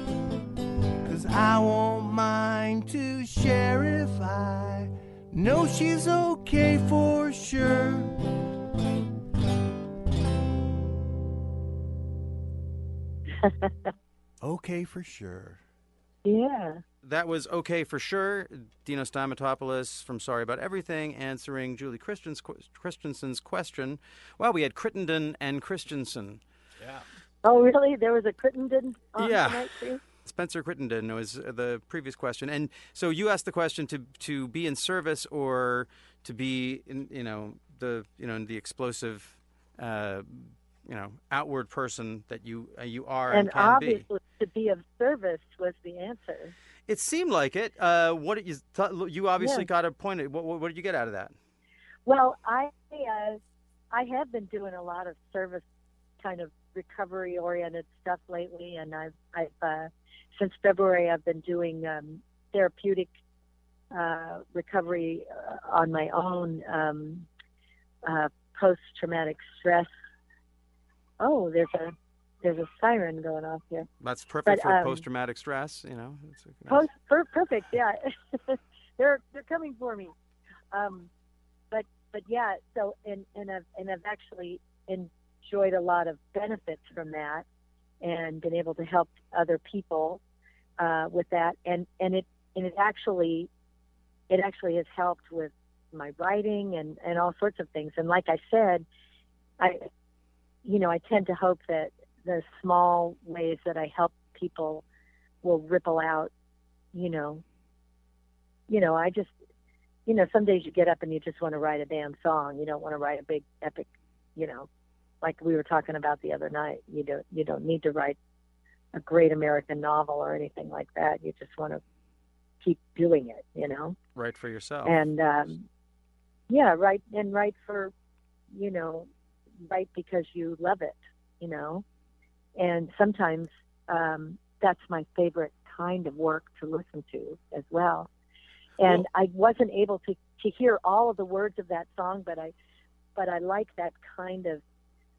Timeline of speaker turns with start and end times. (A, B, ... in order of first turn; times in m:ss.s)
0:01.0-0:08.2 A
0:13.4-0:13.9 B
0:14.4-0:15.6 A
0:16.2-0:16.8 B
0:17.0-0:26.4 C
0:27.4-0:30.0 B
0:29.2-0:44.0 C
0:43.3-0:46.5 B
0:46.9-0:51.3 C
0:49.4-0:49.7 B
0:52.0-0:53.4 B
0:53.9-0:55.6 B
0:56.2-1:03.1 B
1:03.9-1:07.3 B
1:08.0-1:09.9 B
1:11.2-1:13.9 B
1:14.0-1:16.8 C
1:14.4-1:15.0 B
1:16.7-1:20.1 B
1:20.7-1:21.1 B
1:21.7-1:27.4 B
1:28.0-1:30.2 B
1:30.8-1:33.5 B
1:34.3-1:38.8 B
1:39.6-1:39.9 B
1:40.6-1:44.8 B
1:45.4-1:46.3 B
1:46.9-1:47.4 B
1:48.7-1:49.3 B
1:50.0-1:54.7 B
1:55.2-1:58.2 B
1:58.9-2:01.8 B
2:02.6-2:04.0 B
2:04.2-2:05.0 C
2:04.8-2:05.6 B
2:06.5-2:07.9 B
2:08.5-2:09.1 B
2:09.6-2:11.8 B
2:12.6-2:18.1 B
2:18.8-2:22.5 B
2:23.2-2:24.6 B